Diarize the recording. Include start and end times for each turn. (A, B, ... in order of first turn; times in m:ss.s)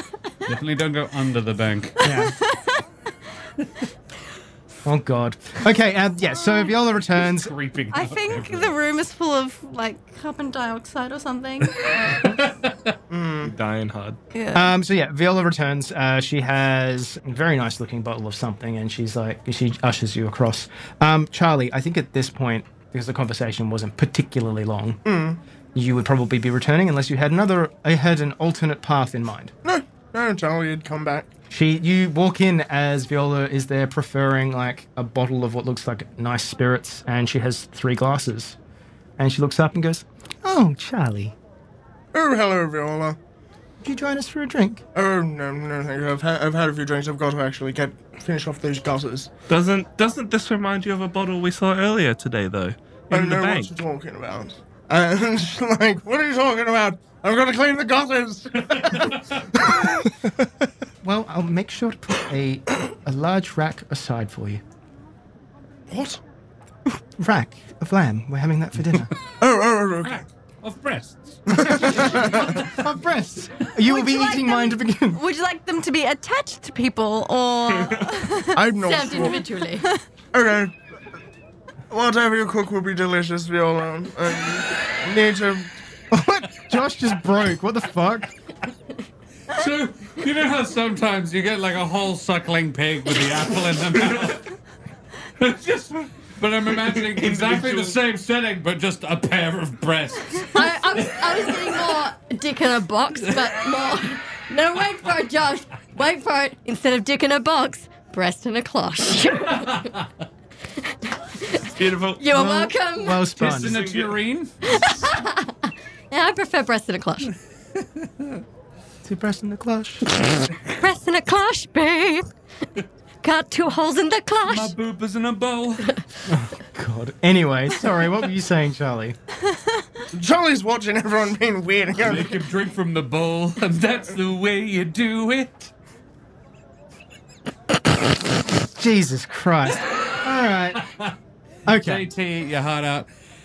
0:00.4-0:02.1 A
0:02.0-0:02.3 B
0:02.0-0:02.8 C
0:04.8-0:07.5 B
0:06.4-0:06.7 C
0:07.3-0:08.7 A
0:07.9-0:12.2 C
0:11.8-0:12.7 A
0:13.1-0:13.5 D
0:13.4-0:14.2 E
0:14.3-0:14.7 C
0:14.5-0:25.0 B
0:25.0-0:25.4 D
0:25.7-0:29.5 B
0:29.6-0:31.3 D
0:31.5-0:38.6 B
0:39.2-0:41.3 B
0:42.1-0:43.2 D
0:43.8-0:44.8 B
0:44.9-0:49.3 D
0:49.5-0:53.7 E
0:53.1-1:00.4 D
1:01.0-1:04.6 B
1:05.9-1:06.2 D
1:07.2-1:09.1 B
1:09.4-1:10.2 D
1:10.0-1:12.7 A
1:11.5-1:12.5 D
1:12.6-1:15.2 B
1:13.8-1:18.6 C
1:17.7-1:18.1 E
1:18.5-1:19.4 D
1:18.8-1:19.8 F
1:19.2-1:20.0 C
1:20.3-1:20.7 D
1:21.9-1:25.7 D
1:26.1-1:28.3 B
1:29.5-1:34.5 A
1:35.4-1:41.9 A
1:36.8-1:38.0 E
1:40.5-1:50.0 F
1:50.8-1:53.3 F
1:51.6-1:52.3 E
1:52.3-1:53.8 B
1:53.4-1:54.2 E
1:53.4-1:54.6 A
1:54.6-1:57.3 F
1:59.0-2:00.0 B
2:00.7-2:02.3 F
2:03.2-2:04.7 F
2:04.4-2:06.0 A
2:06.3-2:09.2 B
2:10.1-2:12.4 D
2:12.0-2:15.7 A
2:18.7-2:20.8 B
2:20.8-2:21.1 A
2:21.6-2:22.0 B
2:21.7-2:23.1 A